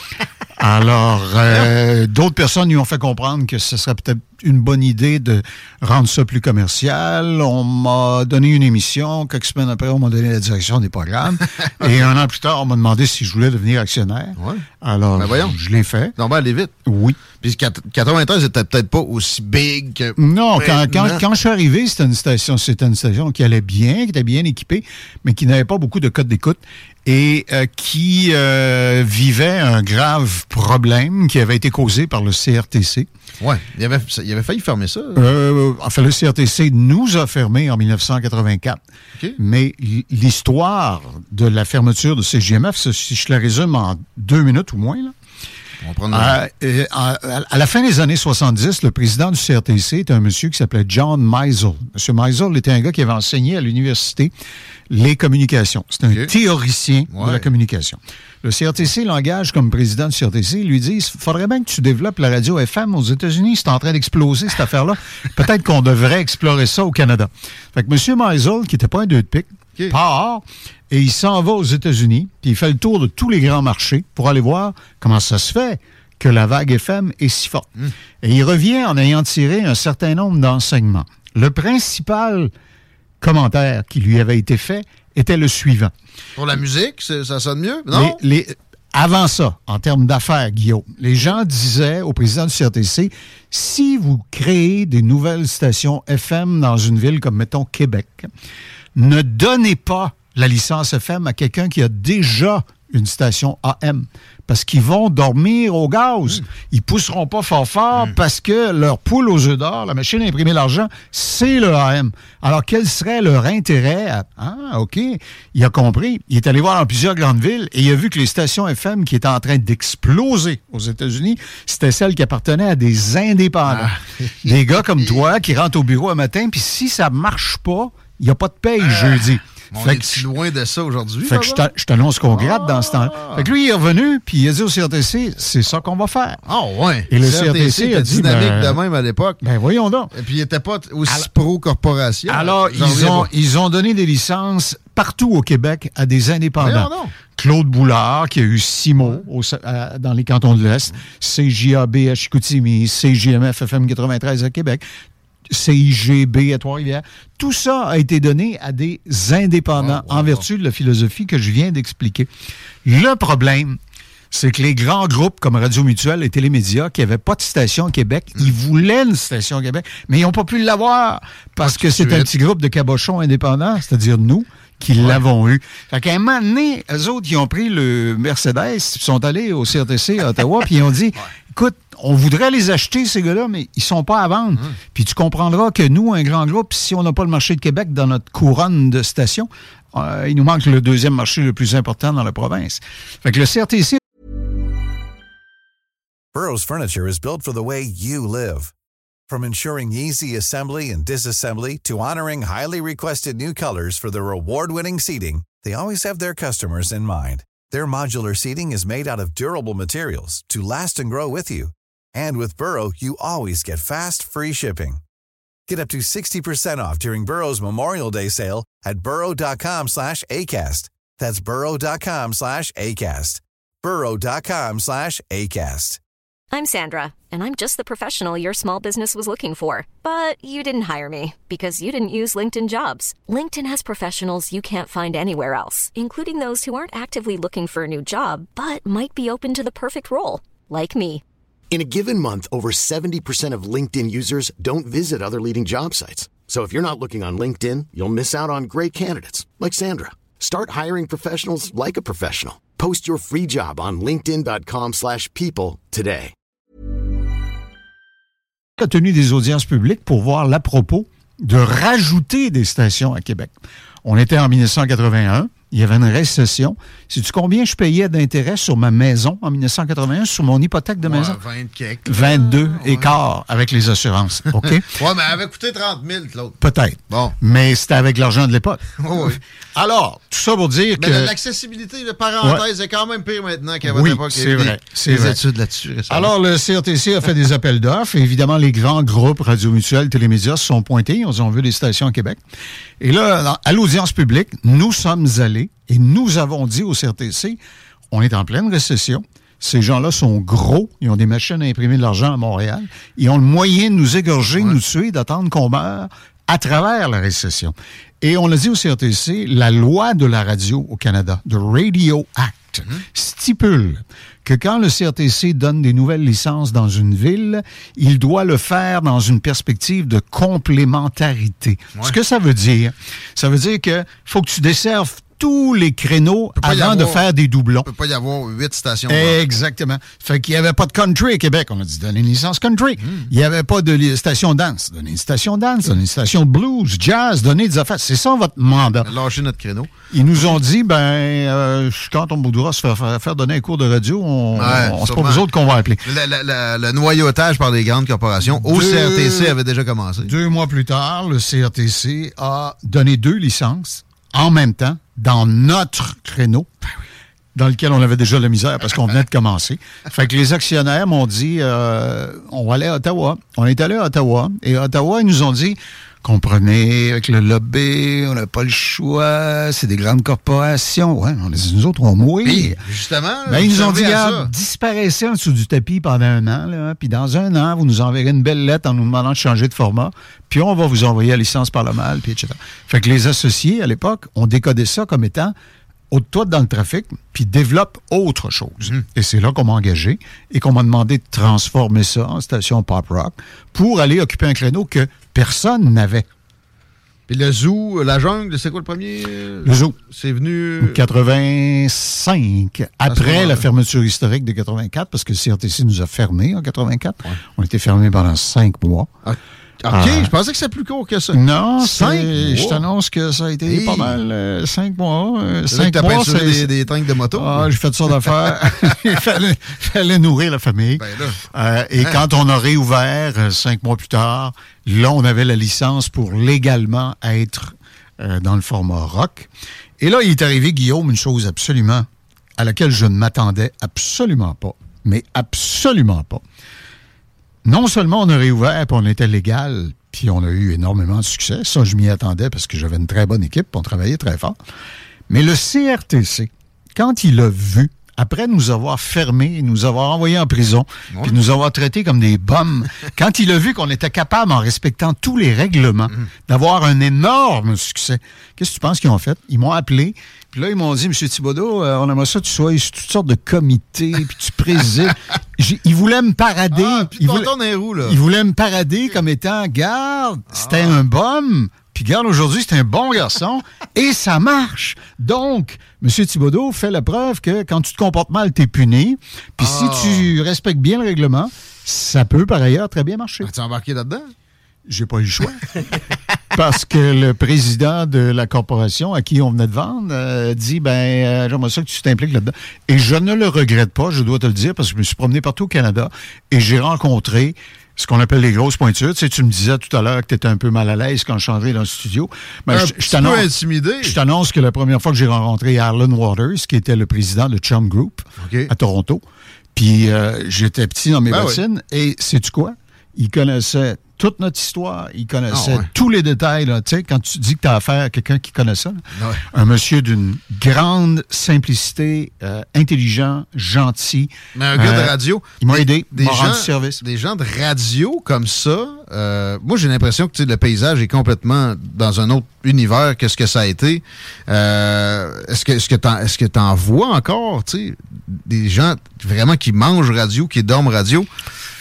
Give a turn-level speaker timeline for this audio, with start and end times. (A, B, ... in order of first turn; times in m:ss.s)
0:00.6-0:16.1 A
0:15.2-0:15.5 B
0:16.2-0:16.7 B
0:16.8-0:17.2 A
0:17.4-0:21.2 B
0:20.2-0:33.1 A
0:33.4-0:35.2 B
0:35.1-0:38.8 A
0:39.4-0:45.1 A
0:45.8-0:46.4 B
0:46.1-0:54.3 A
0:54.9-1:17.7 A
0:57.1-0:57.4 B
1:18.2-1:22.5 A
1:23.2-1:25.9 A
1:26.4-1:28.2 B
1:27.9-1:38.3 A
1:38.9-2:10.3 A
2:03.7-2:05.1 B
2:08.8-2:09.2 B
2:09.7-2:11.6 B
2:11.2-2:16.4 A
2:12.3-2:13.5 B
2:16.5-2:19.4 B
2:17.1-2:18.8 A
2:19.4-2:20.1 A
2:20.1-2:23.3 B
2:22.3-2:34.8 A
2:26.6-2:27.1 B
2:35.5-2:42.3 A
2:39.8-2:40.4 B
2:42.8-2:43.8 A
2:44.3-3:14.0 A
2:51.6-2:52.3 B
3:16.3-3:18.7 C
3:19.3-3:35.0 C
3:35.7-3:46.0 C
3:46.5-4:01.2 D
4:01.7-4:16.3 E
4:18.8-4:23.5 A
4:24.0-4:31.4 A
4:31.0-4:33.1 B
4:32.1-4:34.9 A
4:34.9-4:36.6 B
4:36.6-4:41.3 A
4:37.1-4:37.4 B
4:39.0-4:39.4 B
4:41.0-4:46.3 B
4:43.8-4:45.4 A
4:46.1-4:52.4 A
4:53.0-4:57.6 A
4:58.1-5:27.9 A
5:26.6-5:27.2 B
5:27.9-5:29.4 B
5:29.1-5:39.1 A
5:39.0-5:39.9 B
5:40.1-5:46.0 A
5:44.5-5:45.4 B
5:46.0-5:50.3 B
5:48.5-5:49.6 A
5:50.2-5:56.7 A
5:57.5-6:12.8 A
6:12.4-6:14.5 B
6:13.5-6:25.5 A
6:26.1-6:36.3 A
6:37.3-6:41.0 B
6:39.6-6:40.0 A
6:40.8-6:49.1 A
6:43.1-6:43.6 B
6:49.2-6:52.8 B
6:49.9-6:50.3 A
6:51.3-6:56.7 A
6:53.7-6:54.2 B
6:55.7-6:57.7 B
6:57.3-7:09.5 A
6:58.6-6:58.9 B
7:01.0-7:01.4 B
7:10.0-7:16.4 A
7:17.6-7:24.6 A
7:25.3-7:47.5 A
7:31.1-7:31.4 B
7:46.7-7:48.2 B
7:48.0-8:03.5 A
7:50.5-7:51.0 B
7:59.6-8:00.3 B
8:03.4-8:04.3 B
8:04.9-8:05.7 A
8:06.5-8:23.5 A
8:22.7-8:24.2 B
8:24.0-8:29.2 A
8:28.4-8:28.7 B
8:29.7-8:47.0 A
8:31.3-8:31.6 B
8:35.5-8:35.9 B
8:39.2-8:39.4 B
8:44.5-9:01.3 B